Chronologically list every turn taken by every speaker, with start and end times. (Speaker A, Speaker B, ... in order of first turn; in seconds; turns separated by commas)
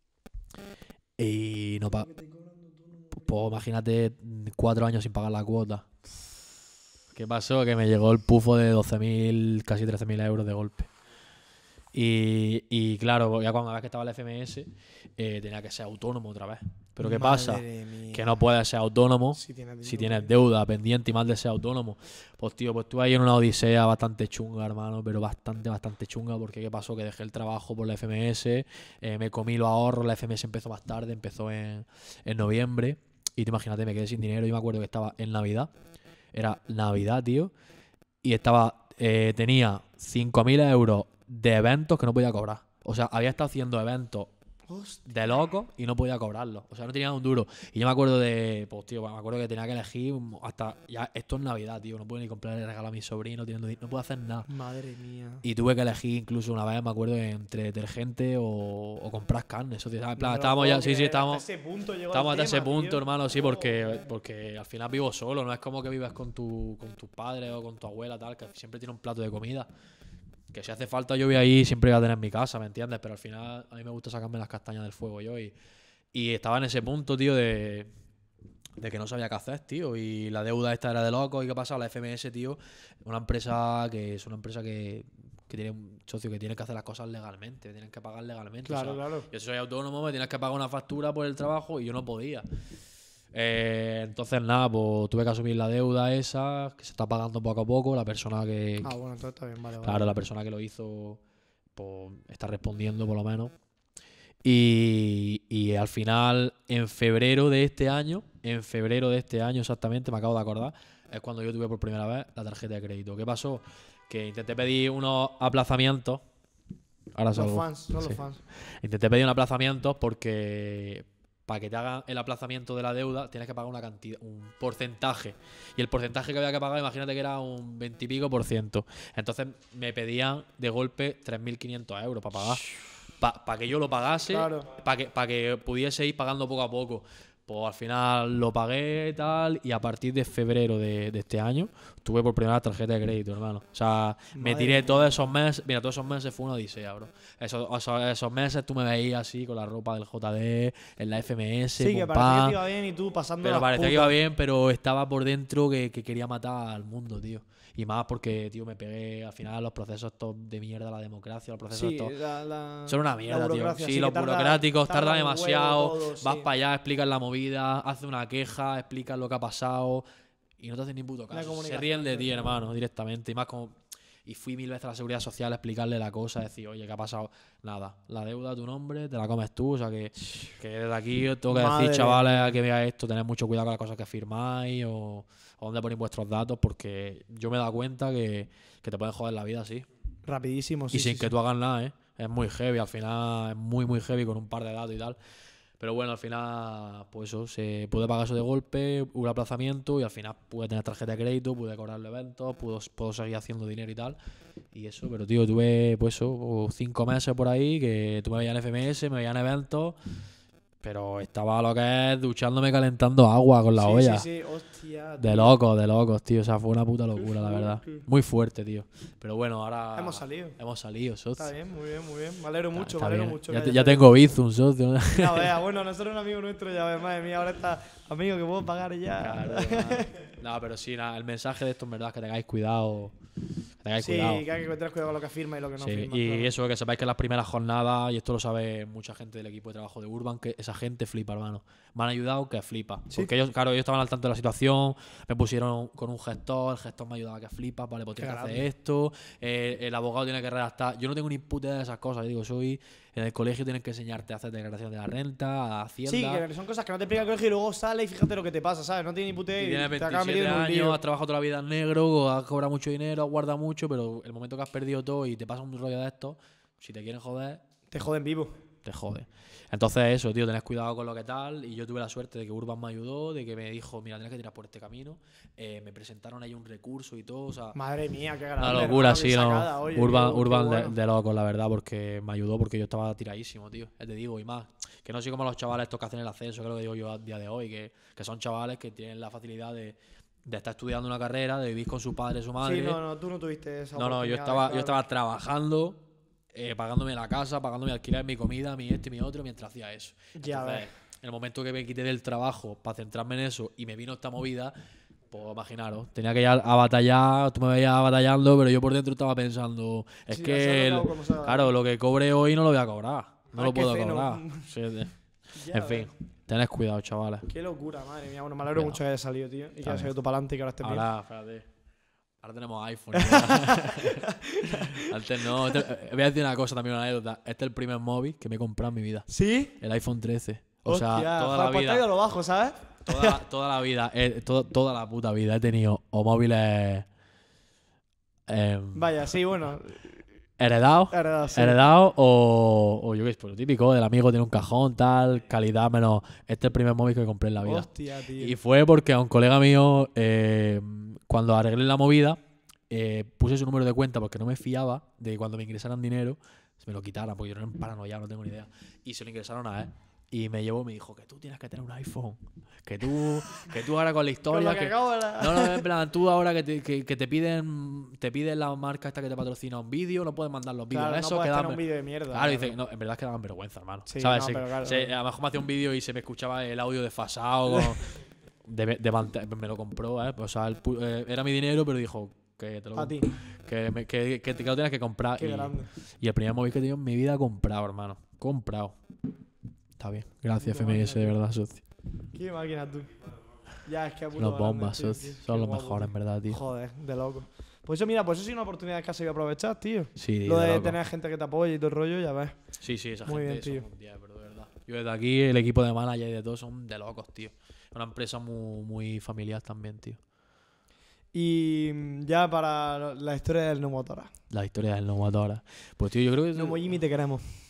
Speaker A: 1.2-2.1, Speaker B: 1.9-3.2, Speaker A: 3.1-5.9, Speaker A: 7.1-10.9, Speaker A: 11.9-35.7, Speaker B: 17.0-18.3, Speaker B: 19.4-20.3, Speaker A: 36.3-37.5, Speaker A: 38.2-44.3, Speaker B: 44.7-45.1, Speaker A: 45.1-54.5, Speaker B: 54.5-55.4, Speaker A: 55.4-61.4, Speaker B: 60.2-63.0, Speaker A: 62.1-69.7, Speaker A: 70.5-75.5, Speaker A: 76.1-77.9, Speaker A: 78.8-92.5, Speaker B: 88.7-89.3, Speaker A: 93.3-99.0, Speaker B: 98.8-100.2, Speaker A: 99.8-101.2, Speaker A: 101.7-103.5, Speaker A: 104.4-116.2, Speaker A: 117.1-152.6, Speaker B: 117.3-118.4, Speaker B: 134.3-134.7, Speaker B: 144.3-145.1, Speaker B: 151.8-154.2, Speaker A: 153.4-162.1, Speaker B: 161.7-166.5, Speaker A: 162.9-170.1, Speaker A: 170.6-189.9, Speaker B: 171.3-172.6, Speaker B: 181.5-182.6, Speaker B: 190.3-191.3, Speaker A: 190.9-195.2, Speaker A: 195.8-204.2, Speaker A: 204.7-210.0, Speaker A: 210.8-214.3, Speaker B: 213.7-215.6, Speaker A: 215.2-221.5, Speaker B: 217.2-218.0, Speaker B: 219.9-220.6, Speaker B: 221.4-224.1, Speaker A: 222.7-225.5, Speaker B: 225.1-230.1, Speaker A: 229.2-233.2, Speaker A: 233.8-234.4, Speaker B: 234.0-236.5, Speaker A: 235.8-256.4, Speaker B: 248.2-248.7, Speaker B: 256.1-261.0, Speaker A: 259.6-267.6, Speaker B: 267.9-268.6, Speaker A: 268.8-277.8, Speaker B: 277.7-280.9, Speaker A: 278.6-293.0, Speaker B: 292.6-295.0, Speaker A: 293.9-304.7, Speaker B: 300.4-300.9, Speaker A: 305.3-315.1, Speaker B: 310.3-311.7, Speaker B: 313.5-314.7, Speaker B: 315.6-316.1, Speaker A: 315.7-317.5, Speaker B: 317.5-321.1, Speaker A: 318.7-319.0, Speaker A: 319.8-320.1, Speaker A: 320.8-321.7, Speaker A: 322.4-332.1, Speaker B: 323.1-325.1, Speaker B: 329.3-329.7, Speaker B: 330.9-333.4, Speaker A: 333.1-337.1, Speaker A: 338.5-339.1, Speaker B: 338.9-340.1, Speaker A: 340.6-378.1, Speaker B: 341.1-341.8, Speaker B: 347.6-348.6, Speaker B: 364.5-365.9, Speaker B: 370.9-372.7, Speaker B: 374.1-375.1, Speaker A: 378.6-388.9, Speaker B: 382.9-383.3, Speaker B: 385.4-385.9, Speaker A: 390.0-391.8, Speaker B: 390.6-391.4, Speaker B: 392.3-393.1, Speaker B: 393.8-402.6, Speaker A: 394.4-396.6, Speaker A: 400.2-401.0, Speaker A: 402.8-410.2, Speaker B: 403.2-403.9, Speaker B: 411.3-414.3, Speaker A: 414.5-416.9, Speaker B: 416.5-417.5